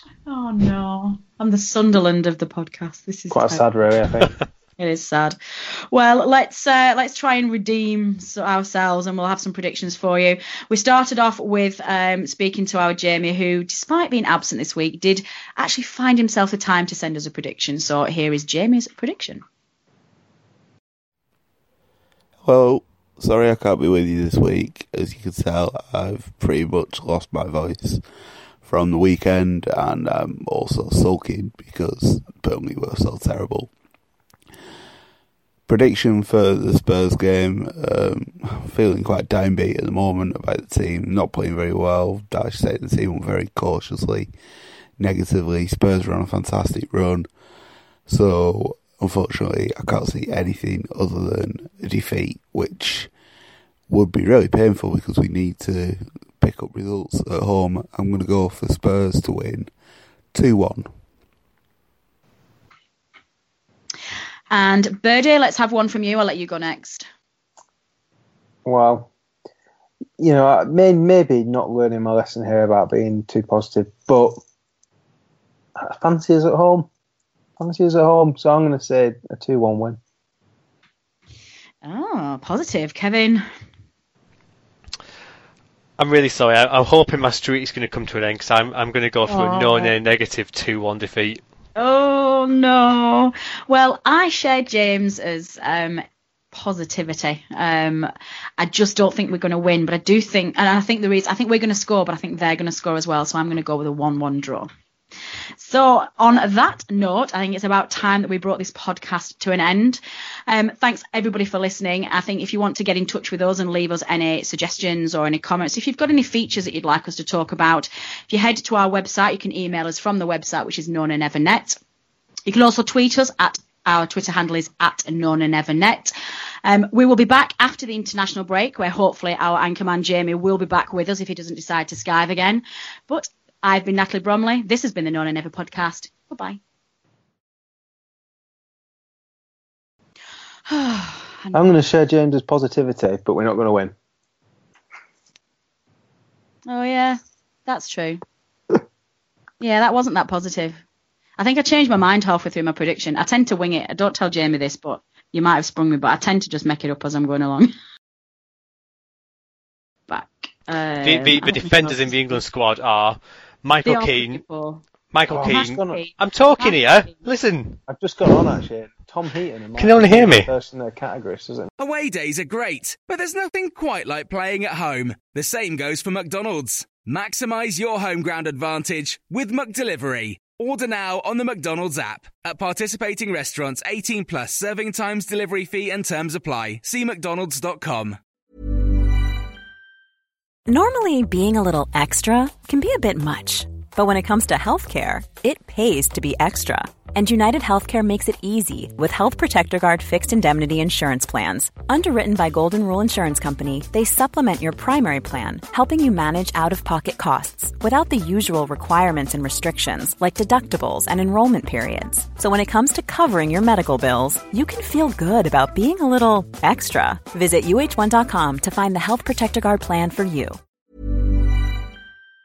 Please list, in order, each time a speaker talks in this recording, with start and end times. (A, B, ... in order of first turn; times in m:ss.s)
0:00.2-0:03.6 A
0:03.3-0:04.3 B
0:04.8-0:19.4 A
0:22.4-0:28.0 C
0:28.6-0:33.7 C
0:35.7-0:44.3 C
0:45.0-0:47.3 C
0:48.1-0:53.1 C
0:53.9-0:59.7 C
1:00.3-1:00.9 C
1:04.5-1:07.0 A
1:08.6-1:09.1 B
1:10.2-1:14.4 B
1:15.8-1:16.9 B
1:17.6-1:20.0 B
1:21.8-1:23.4 A
1:26.0-1:31.4 D
1:29.3-1:29.9 A
1:31.8-1:44.7 A
1:45.6-2:01.8 A
2:02.4-2:06.1 A
2:06.6-2:16.6 A
2:20.7-2:21.6 A
2:21.5-2:23.9 B
2:26.7-2:28.2 A
2:29.6-2:30.8 A
2:31.4-2:37.7 A
2:40.1-2:42.4 A
2:41.0-2:44.4 D
2:43.8-2:44.8 A
2:45.1-2:48.3 D
2:45.3-2:46.0 B
2:45.4-2:47.1 A
2:47.9-2:51.7 B
2:49.8-2:50.5 D
2:51.8-3:08.2 E
3:10.7-3:40.6 F